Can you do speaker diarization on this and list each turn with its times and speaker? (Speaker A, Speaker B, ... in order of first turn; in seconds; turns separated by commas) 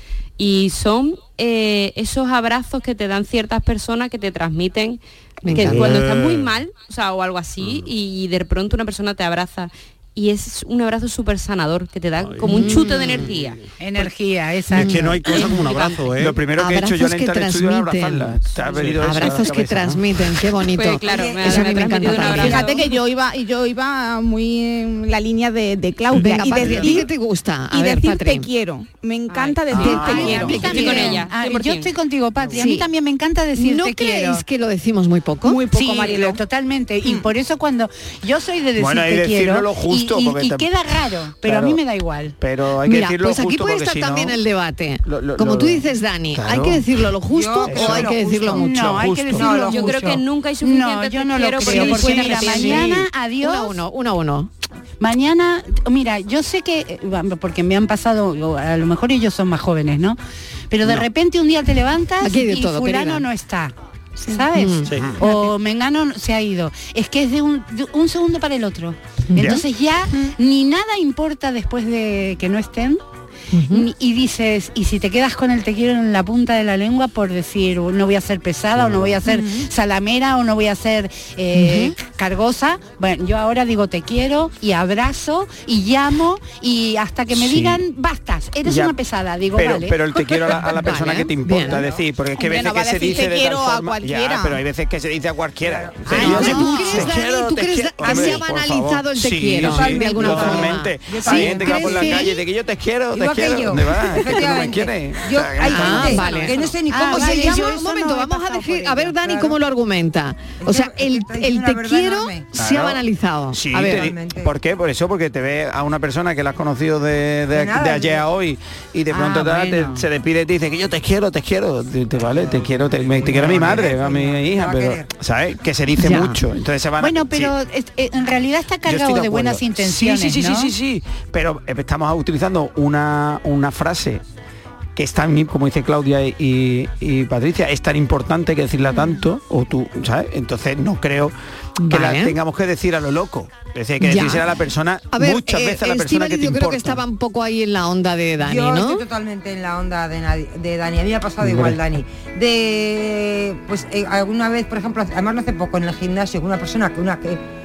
Speaker A: 0.4-13.6, Speaker B: 5.4-6.0, Speaker C: 5.5-6.6, Speaker C: 12.2-13.5, Speaker B: 12.4-13.2, Speaker D: 13.8-15.9, Speaker C: 14.7-16.4, Speaker B: 14.8-15.1, Speaker E: 16.2-20.1, Speaker B: 16.6-18.4, Speaker B: 18.9-22.8, Speaker A: 20.6-22.8, Speaker F: 21.1-22.9, Speaker G: 22.5-27.1, Speaker B: 26.1-28.5, Speaker C: 26.4-27.0, Speaker G: 27.7-30.7, Speaker A: 29.3-31.9, Speaker B: 29.7-31.2, Speaker D: 29.8-34.4, Speaker E: 29.8-30.4, Speaker B: 32.5-32.9, Speaker B: 33.5-35.6, Speaker G: 35.4-36.4, Speaker D: 35.7-42.4, Speaker E: 38.8-40.7, Speaker E: 41.4-41.8, Speaker E: 42.4-44.4, Speaker B: 42.9-49.1, Speaker E: 45.0-46.9, Speaker F: 47.3-50.2, Speaker E: 47.7-48.1, Speaker D: 48.5-53.8, Speaker A: 49.4-53.0, Speaker B: 51.6-54.5, Speaker D: 55.0-60.2, Speaker D: 60.7-73.0, Speaker B: 62.2-63.2, Speaker B: 64.3-64.9, Speaker E: 69.4-69.6, Speaker B: 73.5-73.9, Speaker D: 73.7-90.6, Speaker B: 79.3-79.6, Speaker B: 81.5-82.0, Speaker E: 87.3-87.8, Speaker E: 88.6-89.0, Speaker E: 89.5-106.3, Speaker B: 90.6-91.9, Speaker G: 92.3-94.6, Speaker F: 95.7-97.2, Speaker B: 96.1-102.3, Speaker D: 96.1-97.1, Speaker F: 98.0-98.4, Speaker F: 99.6-102.4, Speaker F: 103.1-107.8, Speaker B: 105.6-114.1, Speaker D: 106.3-109.2, Speaker F: 109.3-109.6, Speaker F: 110.6-112.5, Speaker E: 112.5-127.5, Speaker F: 113.7-114.5, Speaker F: 117.5-118.3, Speaker D: 119.1-120.0, Speaker F: 123.2-125.1, Speaker B: 126.0-126.4, Speaker D: 127.0-130.7, Speaker E: 128.8-134.2, Speaker E: 135.0-141.3, Speaker B: 141.8-142.4, Speaker E: 141.9-147.0, Speaker B: 144.0-144.5, Speaker B: 145.1-149.0, Speaker F: 148.4-157.4